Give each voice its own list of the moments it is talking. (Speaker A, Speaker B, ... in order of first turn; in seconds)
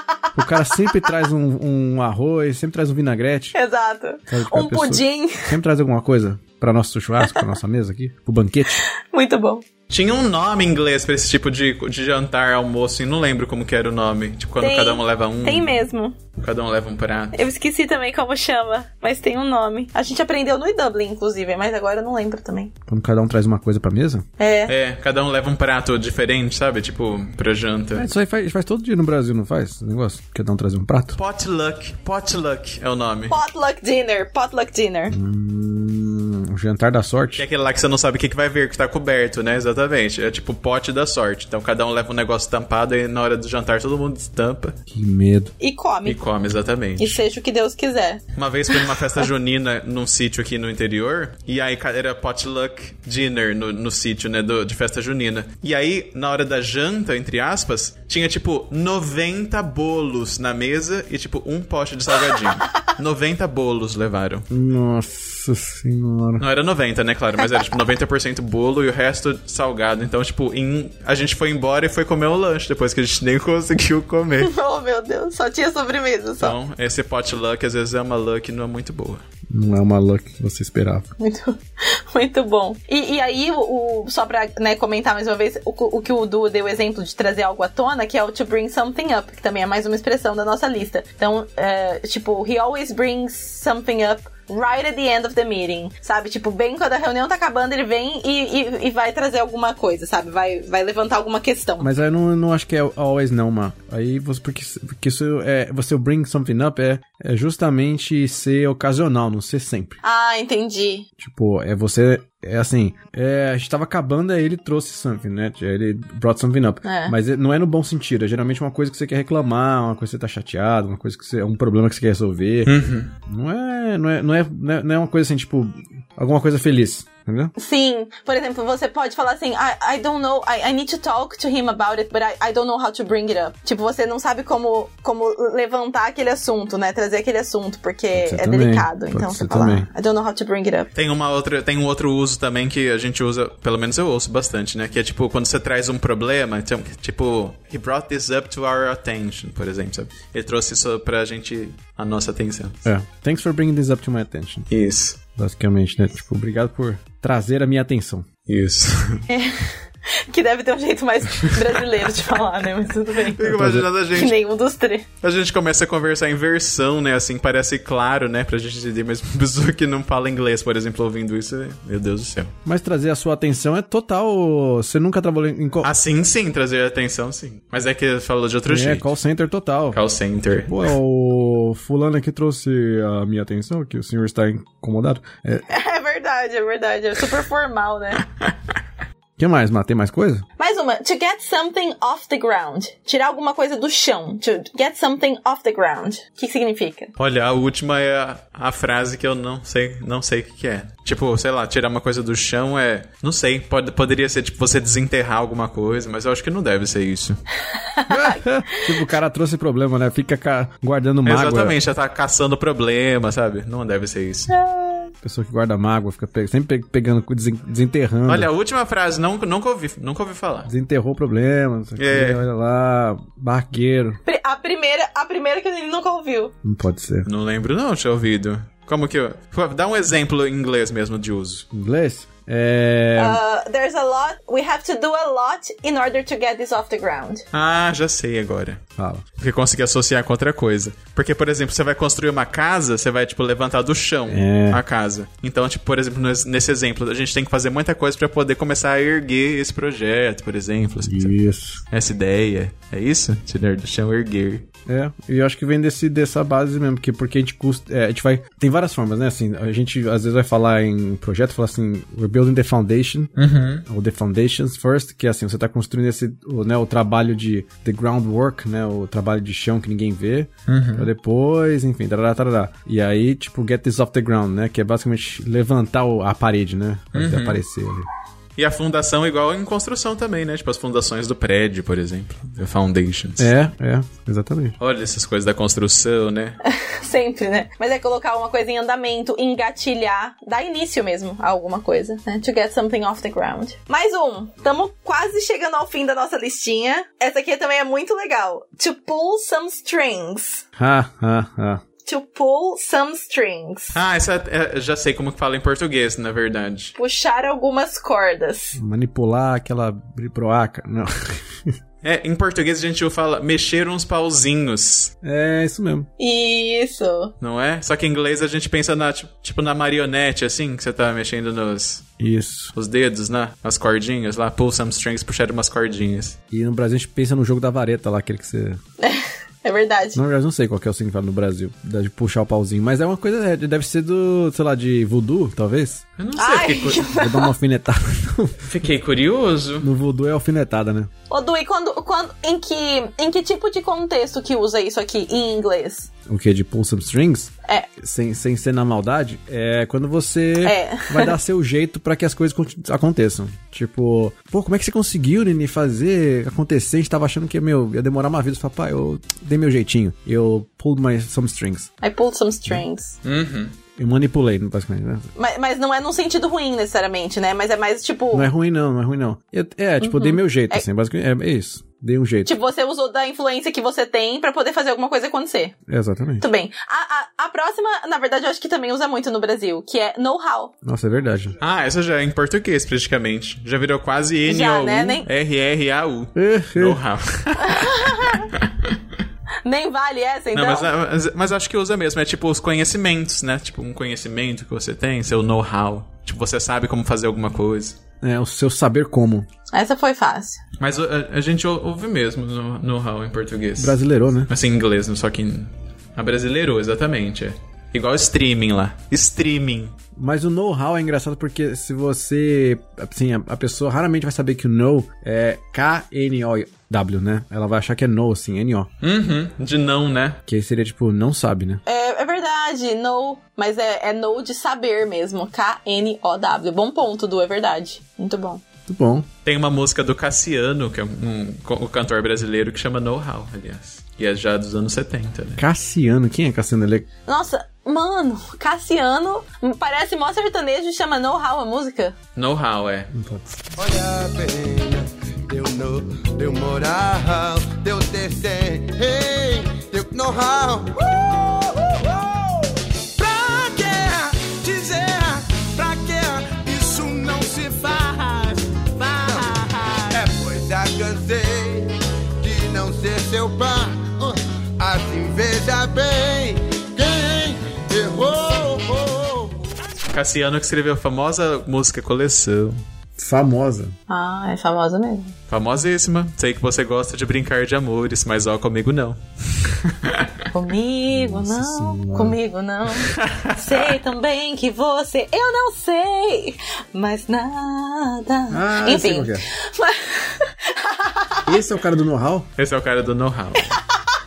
Speaker A: 0.3-3.5, 4.3-8.8, 22.9-24.3, 27.9-31.2, 35.1-37.4, 44.9-45.5, 64.5-66.5, 79.5-81.1, 101.8-110.0, 111.2-127.5, 138.1-139.9, 152.8-154.7, 155.4-158.3, 163.5-163.9, 172.7-175.9, 178.7-180.0, 180.7-185.7, 189.4-190.4, 208.1-211.8, 215.2-218.5, 220.7-224.2, 226.6-227.3, 231.7-233.4, 239.0-239.2, 244.3-244.8, 251.0-251.8, 254.9-263.3, 263.9-278.1, 283.4-284.8, 300.8-301.8, 308.8-311.8, 315.2-316.1, 322.2-322.7, 326.5-328.8, 330.1-336.0, 337.1-338.7, 339.8-341.1, 346.3-361.9, 364.0-365.3, 368.3-372.5, 375.9-376.5, 380.8-381.6, 386.4-387.0, 398.2-399.5, 403.8-404.5, 410.2-418.9, 420.5-421.8, 428.9-429.3, 435.6-437.1, 443.1-443.6, 473.2-473.9, 481.1-482.4, 488.5-489.5, 491.5-492.5
Speaker B: 0.7-1.1, 3.5-5.5, 8.9-9.6, 14.6-16.2, 17.3-22.7, 24.4-24.7, 33.3-35.2, 45.6-46.2, 47.0-49.0, 74.4-76.6, 81.2-101.9, 110.0-111.1, 116.8-117.2, 127.6-140.9, 159.3-163.6, 164.1-165.1, 185.7-188.2, 190.6-197.1, 207.9-208.8, 214.5-215.1, 224.3-226.5, 233.2-237.4, 286.6-300.6, 302.1-304.0, 306.9-308.8, 316.2-317.3, 329.0-330.2, 336.4-337.5, 341.3-346.1, 350.6-351.3, 362.0-363.2, 365.4-368.5, 370.0-370.8, 372.4-375.8, 376.4-380.7, 384.5-385.3, 387.6-388.4, 389.6-390.9, 399.7-400.6, 421.9-428.6, 437.3-442.2, 474.1-475.3, 480.5-491.5
Speaker C: 9.9-15.8, 16.4-17.4, 24.7-28.1, 31.2-33.4, 37.4-44.8, 46.0-47.2, 48.4-64.5, 66.4-74.5, 76.4-79.2, 122.7-123.1, 140.9-152.8, 154.7-155.2, 158.5-159.2, 163.4-164.4, 165.2-172.5, 175.8-179.1, 179.9-180.8, 197.2-207.4, 211.2-214.5, 218.3-220.7, 222.0-222.4, 227.3-231.7, 237.5-238.8, 239.4-251.3, 251.9-254.7, 263.4-263.9, 270.7-271.1, 277.1-277.6, 278.6-283.5, 284.8-286.6, 303.9-306.9, 312.0-315.1, 317.4-322.1, 322.7-326.4, 336.2-337.1, 338.6-339.9, 363.2-363.8, 381.6-389.0, 390.5-398.0, 400.8-404.0, 404.5-409.9, 419.0-420.4, 429.4-435.6, 442.4-443.1, 470.1-472.8, 475.5-480.3, 483.1-483.8, 492.6-493.8
Speaker D: 443.8-469.6